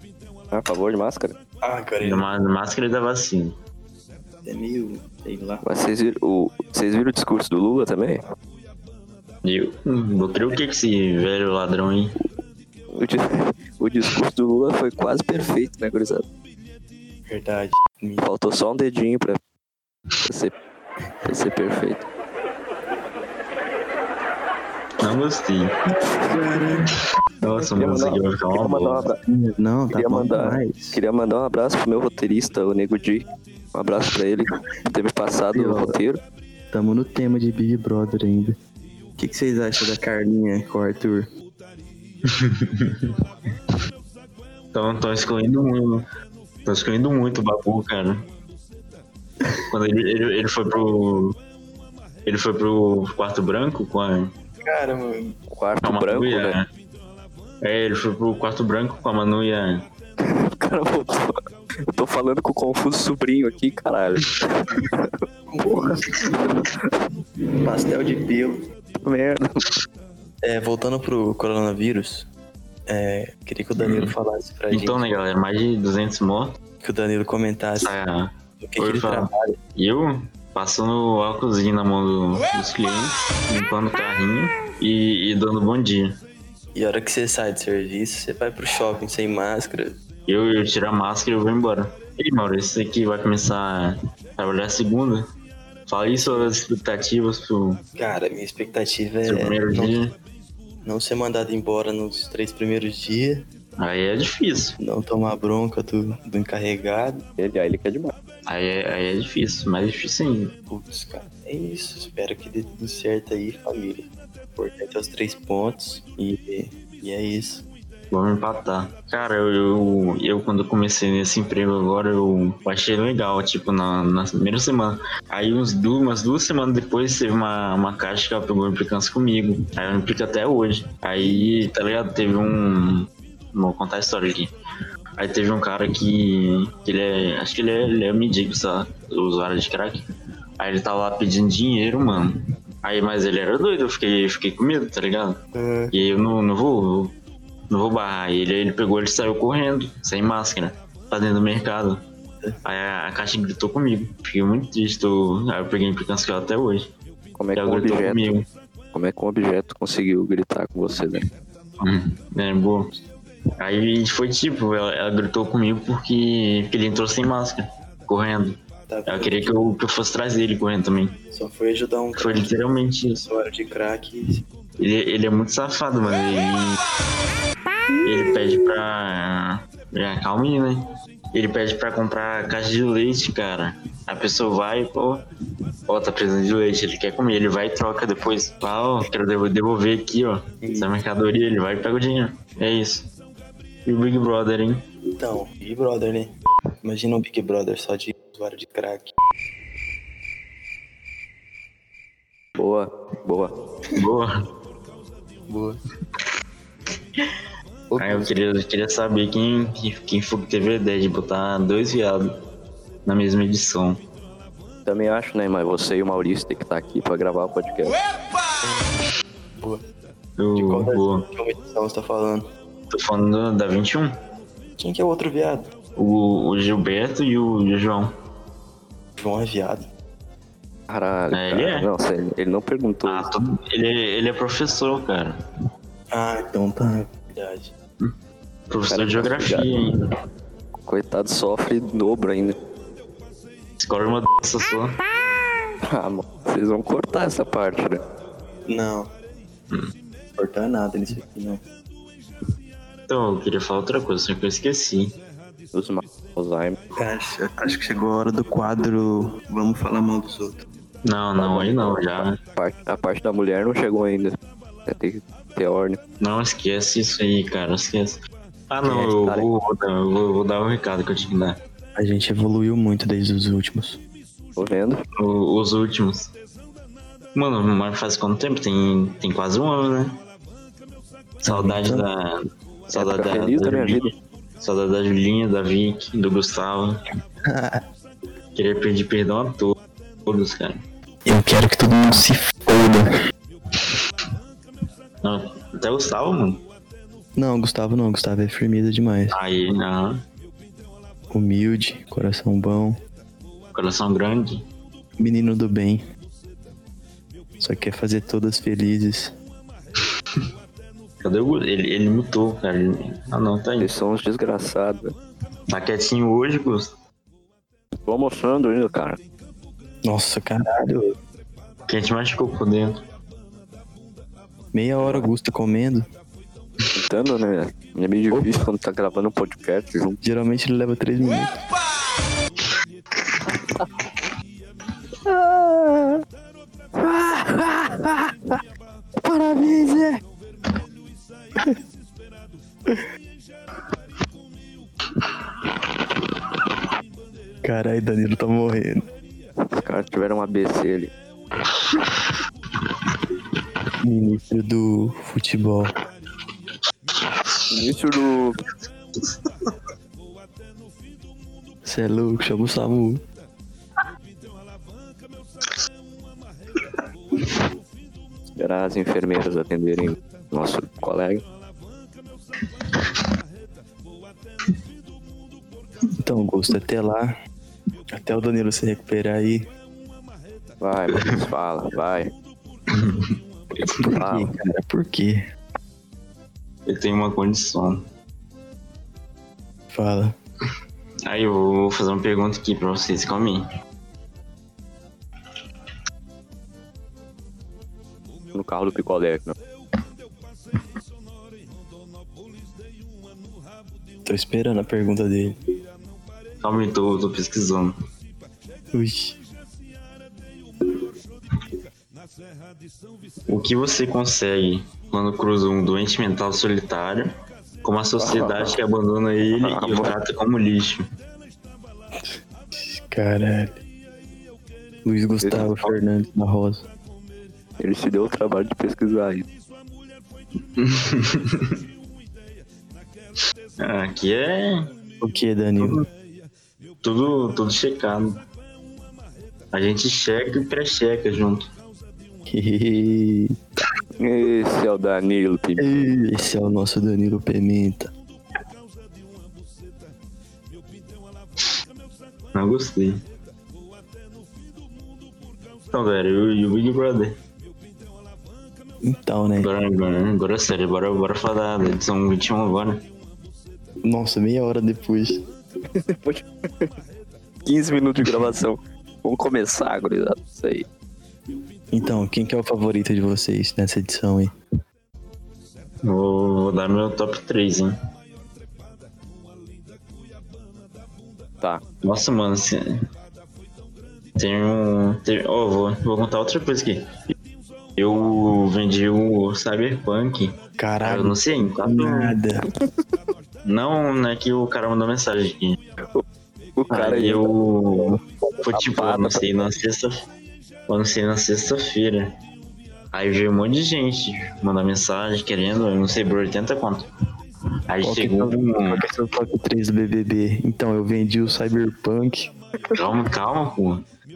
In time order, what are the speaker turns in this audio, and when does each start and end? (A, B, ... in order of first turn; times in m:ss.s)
0:00.5-0:01.4 A
0:01.6-0:02.2 B
0:02.0-0:03.6 C
0:04.4-0:05.6 B
0:05.6-0:08.2 A
0:09.4-0:12.1 C
0:12.9-0:16.2 A
0:17.3-0:18.2 B
0:18.2-0:19.4 A
0:20.2-0:20.5 A
0:21.2-0:22.0 A
0:25.0-0:25.7 C
0:25.9-0:26.9 B
0:27.4-0:29.1 C
0:27.7-0:29.2 A
0:29.2-0:31.0 B
0:29.9-0:36.2 A
0:35.5-0:36.0 B
0:36.7-0:38.6 B
0:39.2-0:41.3 B
0:42.3-0:43.1 C
0:44.7-0:46.0 C
0:46.6-0:48.2 C
0:49.7-0:51.4 C
0:52.2-0:54.3 C
0:54.6-0:55.4 B
0:55.5-0:56.6 A
0:55.8-0:56.6 C
0:57.6-0:59.8 C
1:00.2-1:01.4 A
1:01.9-1:05.2 A
1:05.5-1:06.1 B
1:05.7-1:06.0 A
1:06.5-1:06.9 A
1:07.6-1:08.6 B
1:09.0-1:09.6 A
1:10.4-1:12.3 B
1:12.9-1:15.1 B
1:13.8-1:14.1 C
1:14.7-1:16.6 C
1:16.8-1:17.9 B
1:17.8-1:26.1 C
1:18.6-1:19.6 B
1:26.7-1:29.9 B
1:30.3-1:35.2 C
1:35.9-1:37.8 C
1:36.2-1:36.5 B
1:38.0-1:40.0 B
1:39.2-1:40.1 C
1:40.8-1:43.4 B
1:43.8-1:44.8 C
1:44.8-1:47.2 B
1:47.4-1:48.1 A
1:48.5-1:50.5 C
1:50.7-1:57.6 B
1:58.1-2:14.5 C
2:11.2-2:11.7 B
2:15.2-2:20.0 C
2:20.6-2:25.4 C
2:25.5-2:25.9 B
2:25.9-2:27.1 C
2:27.7-2:32.0 C
2:32.6-2:36.9 C
2:37.4-2:38.3 A
2:37.6-2:38.4 C
2:38.9-2:41.2 A
2:41.8-2:42.9 C
2:43.6-2:51.2 C
2:48.9-2:49.6 B
2:51.3-2:52.6 B
2:52.2-2:53.2 C
2:53.2-2:54.4 B
2:54.8-2:56.8 C
2:58.0-3:05.2 C
3:05.9-3:13.1 C
3:10.6-3:10.9 B
3:13.8-3:14.8 C
3:15.2-3:16.3 B
3:16.8-3:19.1 B
3:22.6-3:23.5 A
3:24.0-3:24.3 C
3:25.5-3:25.8 B
3:27.9-3:28.3 B
3:28.0-3:32.3 C
3:33.0-3:34.0 C
3:34.8-3:38.0 A
3:38.6-3:39.8 B
3:40.4-3:41.3 C
3:40.5-3:42.4 B
3:42.9-3:44.1 C
3:44.8-3:45.7 B
3:46.0-3:48.1 C
3:49.2-3:49.9 B
3:50.9-3:53.3 A
3:51.3-3:51.9 C
3:53.0-3:55.3 C
3:56.1-3:57.7 B
3:58.7-4:00.0 C
3:58.9-3:59.7 A
4:00.8-4:02.6 A
4:03.8-4:05.0 C
4:05.8-4:08.0 A
4:08.7-4:09.1 B
4:10.4-4:11.6 B
4:13.1-4:15.1 C
4:15.7-4:16.8 A
4:17.0-4:20.6 B
4:21.0-4:22.4 C
4:21.4-4:24.4 A
4:24.9-4:26.0 A
4:26.2-4:31.6 C
4:28.8-4:29.5 A
4:32.0-4:34.0 B
4:34.6-4:35.0 A
4:35.2-4:36.3 C
4:37.3-4:40.2 C
4:41.4-4:42.0 B
4:41.4-4:47.0 C
4:42.9-4:44.1 A
4:47.4-4:47.8 B
4:48.5-4:50.8 C
4:51.2-4:53.1 B
4:55.2-4:56.6 C
4:57.4-4:59.4 B
4:59.3-5:00.2 C
5:01.3-5:03.0 B
5:03.7-5:04.6 C
5:05.2-5:06.0 B
5:07.6-5:09.3 B
5:11.2-5:13.9 C
5:13.8-5:15.1 A
5:15.7-5:16.9 C
5:18.0-5:19.2 A
5:20.0-5:21.2 B
5:21.9-5:23.0 C
5:24.7-5:26.1 B
5:25.0-5:25.3 A
5:26.9-5:30.2 A
5:30.2-5:31.6 B
5:39.2-5:40.2 B
5:47.6-5:49.0 B
5:49.6-5:51.1 A
5:54.0-5:55.9 B
5:57.7-5:58.6 A
6:01.8-6:03.2 B
6:08.6-6:11.4 A
6:16.2-6:17.3 B
6:18.1-6:19.7 B
6:20.8-6:22.3 A
6:22.9-6:24.1 C
6:24.0-6:25.4 B
6:24.1-6:24.5 A
6:26.8-6:28.0 C
6:29.9-6:30.3 B
6:31.2-6:33.6 C
6:38.5-6:39.5 A
6:44.2-6:45.6 B
6:46.6-6:47.9 C
6:48.9-6:49.4 B
6:53.5-6:57.3 C
6:57.8-7:01.0 C
6:58.2-6:58.7 A
6:59.6-7:00.1 A
7:02.7-7:03.8 B
7:05.0-7:06.8 B
7:05.4-7:05.9 A
7:07.8-7:09.4 A
7:10.8-7:11.8 C
7:13.8-7:14.9 C
7:15.2-7:16.0 B
7:15.8-7:16.0 C
7:17.0-7:18.4 C
7:19.7-7:21.7 C
7:22.5-7:23.6 B
7:24.2-7:26.0 A
7:25.8-7:28.1 B
7:32.5-7:33.2 C
7:35.9-7:37.4 C
7:39.0-7:39.7 B
7:39.6-7:43.0 C
7:44.0-7:45.4 B
7:45.9-7:46.9 A
7:47.6-7:50.8 A
7:51.9-7:54.5 B
7:56.0-7:57.9 C
8:02.0-8:02.8 C
8:04.4-8:07.0 C
8:08.0-8:12.3 C
8:10.8-8:12.7 B
8:13.6-8:15.8 C
8:16.8-8:18.0 A
8:16.9-8:20.2 C
8:18.7-8:19.6 A
8:20.9-8:22.3 C
8:23.1-8:27.1 C
8:27.9-8:29.0 C
8:28.0-8:32.5 B
8:32.9-8:34.0 C